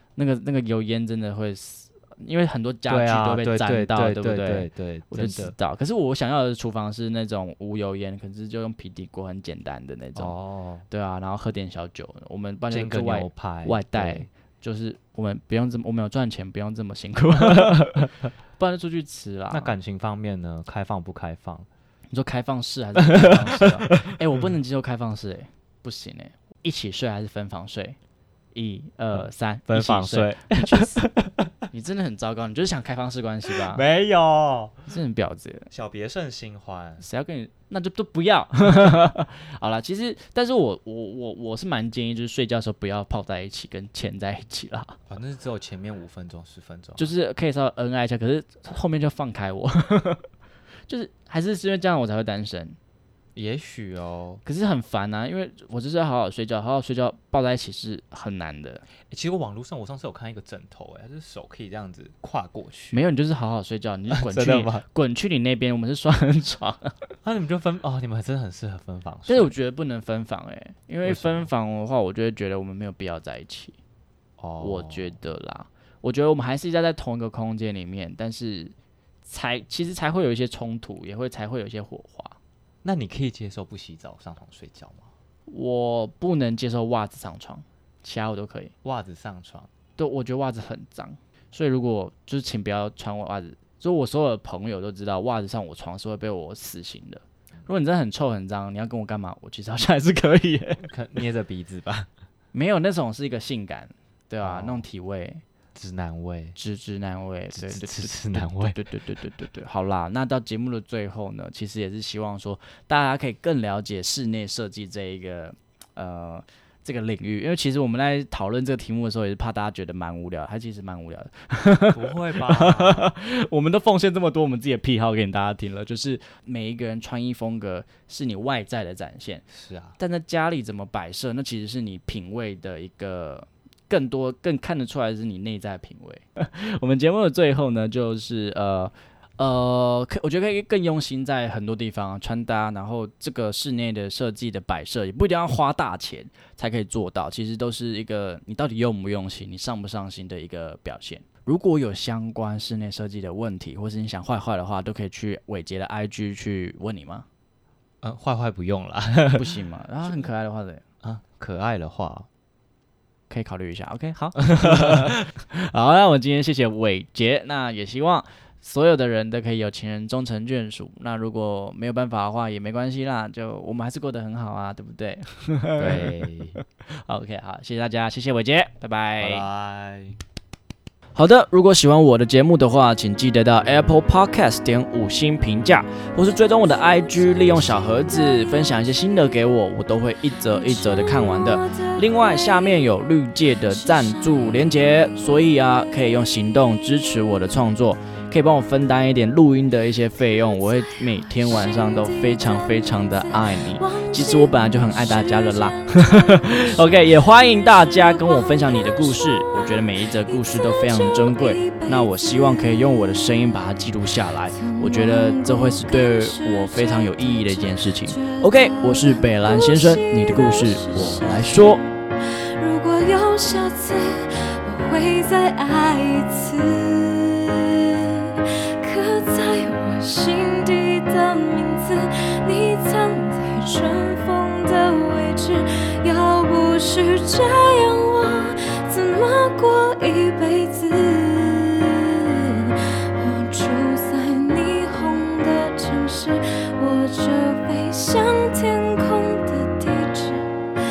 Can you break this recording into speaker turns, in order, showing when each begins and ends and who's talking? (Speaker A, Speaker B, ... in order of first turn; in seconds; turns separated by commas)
Speaker A: 0.1-10.3, Speaker B: 2.9-5.5, Speaker B: 10.2-10.8, Speaker A: 10.9-19.7, Speaker B: 12.7-14.3, Speaker B: 17.4-18.0, Speaker B: 19.5-21.7, Speaker A: 22.1-28.0, Speaker B: 23.0-24.1, Speaker A: 28.5-31.0, Speaker B: 29.1-31.7, Speaker A: 31.7-33.8, Speaker B: 33.5-34.9, Speaker A: 34.9-35.7, Speaker B: 35.7-37.1, Speaker A: 37.0-45.0, Speaker B: 45.1-47.1, Speaker A: 47.0-50.2, Speaker A: 50.9-52.8, Speaker B: 53.3-54.4, Speaker A: 54.4-58.8, Speaker B: 59.1-63.0, Speaker A: 62.9-67.0, Speaker B: 64.1-64.8, Speaker B: 67.2-69.5, Speaker A: 69.3-73.8, Speaker B: 71.0-71.5, Speaker B: 74.4-75.2, Speaker A: 74.6-82.4, Speaker B: 82.8-85.1, Speaker A: 85.5-88.7, Speaker B: 88.8-89.7, Speaker A: 90.0-100.9, Speaker B: 100.8-102.1, Speaker A: 102.5-105.4, Speaker B: 104.4-104.8, Speaker B: 105.7-106.6, Speaker A: 106.5-129.4, Speaker B: 107.5-108.8, Speaker B: 121.9-123.1, Speaker B: 129.5-130.0, Speaker A: 130.0-157.3, Speaker B: 158.0-159.5, Speaker A: 159.3-160.8, Speaker B: 161.0-162.3, Speaker A: 163.3-176.3, Speaker B: 164.5-165.1, Speaker B: 175.8-176.6, Speaker A: 176.9-179.4, Speaker B: 179.2-180.2, Speaker A: 181.1-221.8, Speaker C: 186.3-188.8, Speaker C: 190.3-195.8, Speaker C: 200.2-212.9, Speaker C: 214.5-250.5